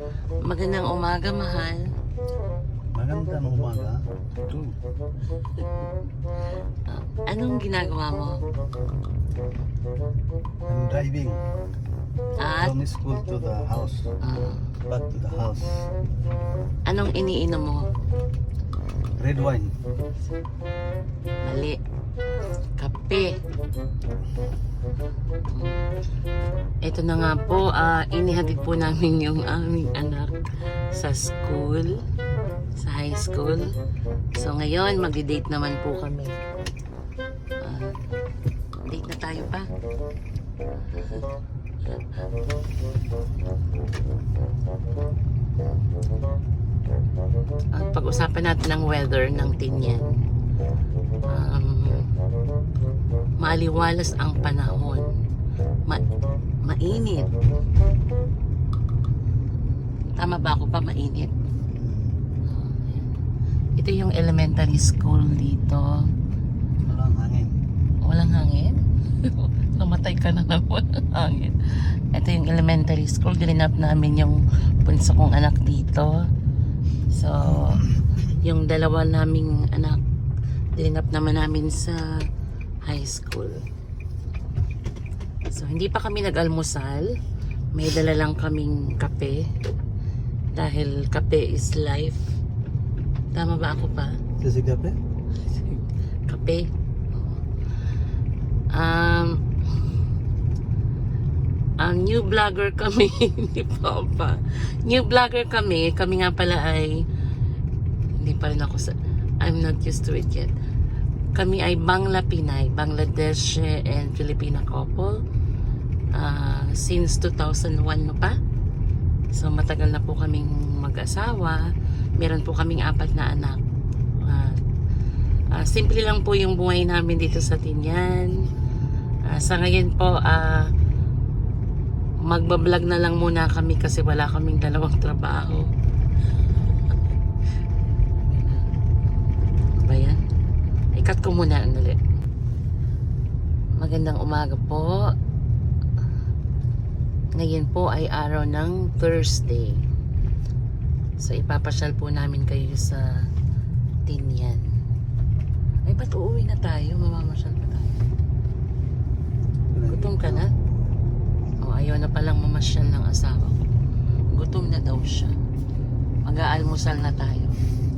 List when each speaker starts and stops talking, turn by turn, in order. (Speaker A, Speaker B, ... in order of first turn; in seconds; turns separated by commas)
Speaker A: 0.4-1.9, Speaker B: 2.9-4.7, Speaker A: 6.9-8.4, Speaker B: 10.7-11.4, Speaker A: 12.4-12.8, Speaker B: 12.6-14.1, Speaker A: 14.2-14.6, Speaker B: 14.8-15.8, Speaker A: 16.9-17.9, Speaker B: 19.2-19.7, Speaker A: 21.4-21.8, Speaker A: 22.8-23.4, Speaker A: 25.5-25.9, Speaker A: 26.8-30.3, Speaker A: 30.9-32.0, Speaker A: 32.8-33.7, Speaker A: 34.3-36.4, Speaker A: 37.6-38.0, Speaker A: 38.8-39.7, Speaker A: 47.7-50.2, Speaker A: 51.2-52.1, Speaker A: 53.4-55.1, Speaker A: 56.6-57.3, Speaker A: 60.1-61.3, Speaker B: 61.7-62.2, Speaker A: 62.4-63.1, Speaker A: 63.8-66.1, Speaker B: 66.9-67.6, Speaker A: 68.0-76.3, Speaker A: 77.1-80.0, Speaker A: 80.8-82.3, Speaker A: 82.8-83.7, Speaker A: 85.5-87.2, Speaker A: 87.7-89.5, Speaker A: 90.5-92.3, Speaker A: 93.3-94.2, Speaker B: 94.4-95.0, Speaker A: 95.5-97.4, Speaker A: 98.7-99.4, Speaker A: 101.8-107.1, Speaker A: 108.2-110.5, Speaker A: 111.3-115.2, Speaker A: 116.1-118.4, Speaker A: 119.3-123.6, Speaker A: 124.2-124.6, Speaker A: 125.5-128.5, Speaker A: 129.2-130.7, Speaker A: 132.2-135.7, Speaker A: 138.2-138.7, Speaker A: 139.7-140.2, Speaker A: 140.9-142.0, Speaker A: 143.8-145.1, Speaker A: 147.3-149.8, Speaker A: 151.2-153.2, Speaker A: 154.1-154.6, Speaker A: 155.8-158.0, Speaker B: 159.7-160.5, Speaker A: 159.9-160.5, Speaker A: 161.6-163.6, Speaker A: 164.3-165.3, Speaker A: 166.2-167.6